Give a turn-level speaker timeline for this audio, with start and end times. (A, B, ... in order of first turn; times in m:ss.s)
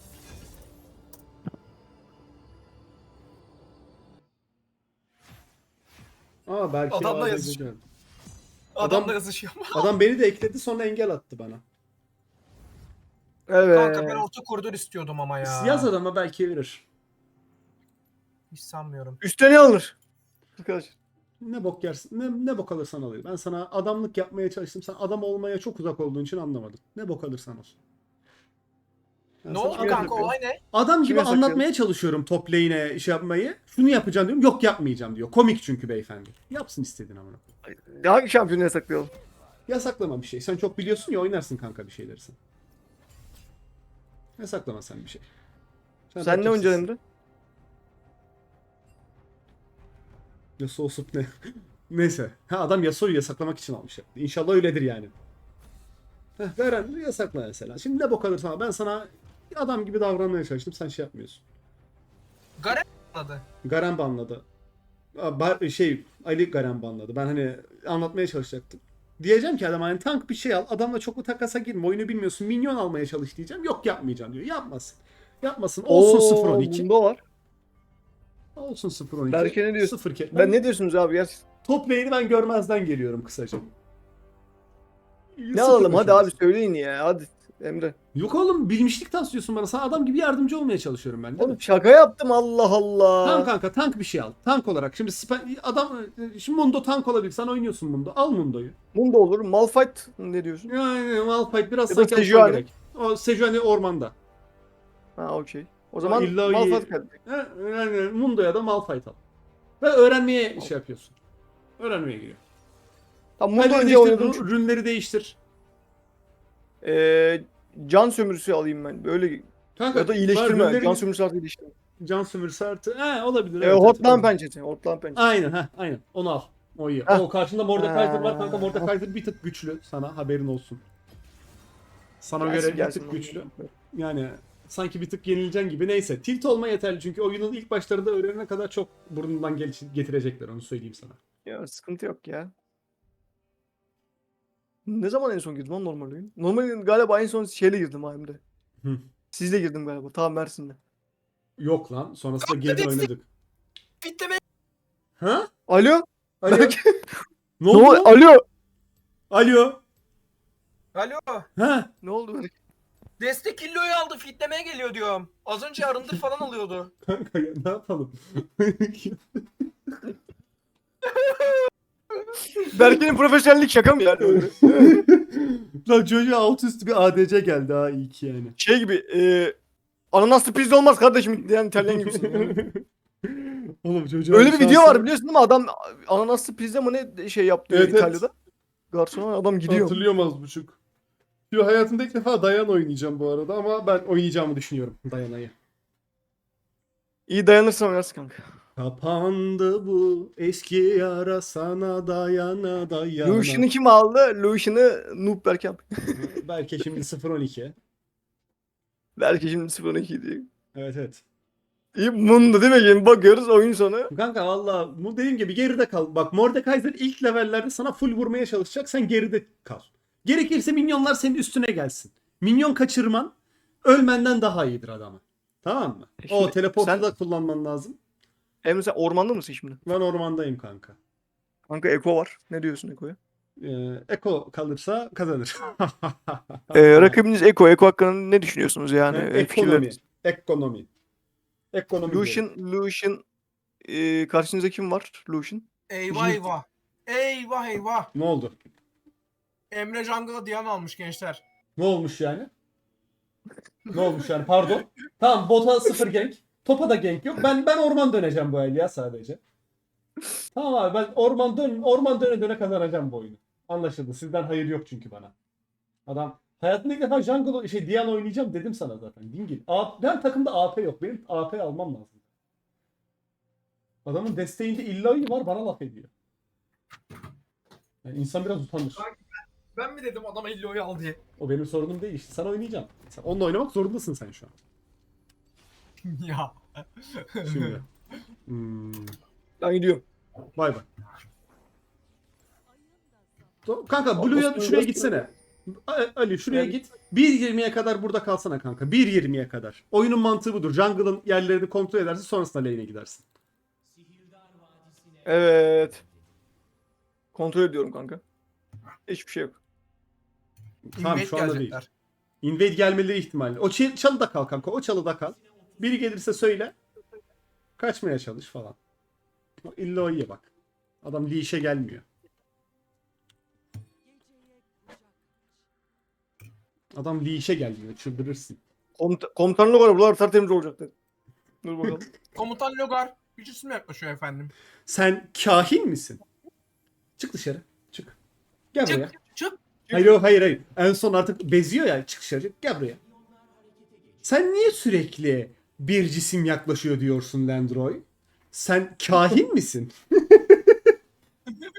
0:06.5-0:07.8 A
0:06.9-0:07.6 B
0:08.8-0:09.9 B
0:08.8-0:09.2 A
0:09.7-0:11.6 A
0:13.5-0:14.2 C
0:13.7-0:15.9 B
0:15.4-0:16.8 A
0:18.5-0:19.2 B
0:19.2-0:20.0 C
0:20.6-0:21.0 C
0:21.4-0:27.8 A
0:29.4-0:37.5 A
0:29.5-0:30.6 B
0:29.7-0:30.3 C
0:31.0-0:31.6 C
0:37.6-0:39.1 C
0:39.7-0:42.4 A
0:44.4-0:45.2 A
0:46.1-0:46.9 A
0:46.2-0:47.0 C
0:50.6-0:55.1 A
0:56.4-1:01.4 A
1:02.6-1:03.5 B
1:03.6-1:04.4 A
1:05.2-1:16.9 A
1:15.9-1:17.2 C
1:18.6-1:20.6 A
1:19.3-1:21.4 C
1:21.6-1:23.7 A
1:25.4-1:26.4 A
1:25.5-1:28.0 C
1:28.2-1:31.6 A
1:31.4-1:33.5 C
1:33.2-1:38.8 A
1:38.9-1:40.7 C
1:40.7-1:44.1 A
1:41.9-1:42.7 C
1:45.2-1:47.2 C
1:46.0-1:49.2 A
1:49.8-1:51.2 A
1:51.8-1:52.4 A
1:53.4-1:54.5 C
1:53.6-1:55.4 A
1:56.8-2:01.7 C
1:59.8-2:01.1 A
2:02.0-2:04.3 A
2:03.6-2:05.2 C
2:05.2-2:10.8 A
2:07.1-2:08.9 C
2:12.2-2:21.2 A
2:12.4-2:13.7 C
2:21.4-2:22.5 C
2:24.8-2:28.4 C
2:29.3-2:30.8 C
2:31.6-2:33.2 A
2:32.4-2:33.1 B
2:34.0-2:34.4 B
2:35.2-2:35.5 A
2:35.7-2:36.9 C
2:36.4-2:36.8 A
2:37.6-2:38.2 A
2:37.7-2:38.4 C
2:39.3-2:39.8 A
2:40.9-2:41.5 B
2:41.6-2:41.9 A
2:42.0-2:42.5 C
2:43.2-2:46.9 B
2:47.0-2:50.1 A
2:51.1-2:51.7 B
2:52.6-2:55.0 C
2:54.2-2:58.6 A
2:58.6-2:59.6 C
3:00.1-3:02.6 C
3:01.8-3:05.1 A
3:04.3-3:08.3 C
3:07.7-3:08.2 A
3:08.9-3:10.0 C
3:09.7-3:10.8 A
3:11.5-3:15.6 A
3:17.3-3:18.4 C
3:18.8-3:23.7 A
3:23.2-3:26.3 C
3:26.1-3:27.8 A
3:29.2-3:30.5 C
3:30.7-3:31.2 A
3:31.9-3:34.1 C
3:34.1-3:48.0 A
3:46.2-3:47.0 C
3:48.6-3:49.8 C
3:49.8-3:51.0 A
3:51.7-3:53.2 C
3:53.6-3:57.2 A
3:56.7-3:59.9 C
3:59.1-4:00.9 A
4:01.7-4:02.4 A
4:02.0-4:03.2 C
4:03.8-4:05.7 C
4:05.9-4:08.1 B
4:06.1-4:06.5 A
4:08.1-4:08.6 A
4:09.7-4:11.4 B
4:11.8-4:12.5 A
4:13.9-4:19.4 A
4:20.5-4:25.3 A
4:26.0-4:32.2 A
4:34.0-4:36.1 A
4:38.0-4:39.1 A
4:39.8-4:41.2 B
4:41.4-4:44.5 A
4:46.0-4:47.8 B
4:47.4-4:47.8 A
4:48.4-4:49.2 A
4:49.6-4:50.0 C
4:50.6-4:50.8 A
4:53.6-5:03.2 A
4:54.2-4:55.3 C
5:05.2-5:06.0 C
5:07.3-5:08.2 C
5:09.1-5:09.6 C
5:10.9-5:11.8 A
5:11.0-5:11.9 B
5:12.4-5:16.8 A
5:17.8-5:18.8 A
5:19.6-5:20.5 A
5:21.0-5:22.0 A
5:26.9-5:28.6 A
5:29.0-5:30.9 C
5:31.6-5:32.1 C
5:32.3-5:34.5 B
5:34.9-5:36.2 A
5:37.2-5:38.2 A
5:38.7-5:39.1 A
5:38.8-5:39.6 B
5:39.9-5:43.0 A
5:44.2-5:50.9 A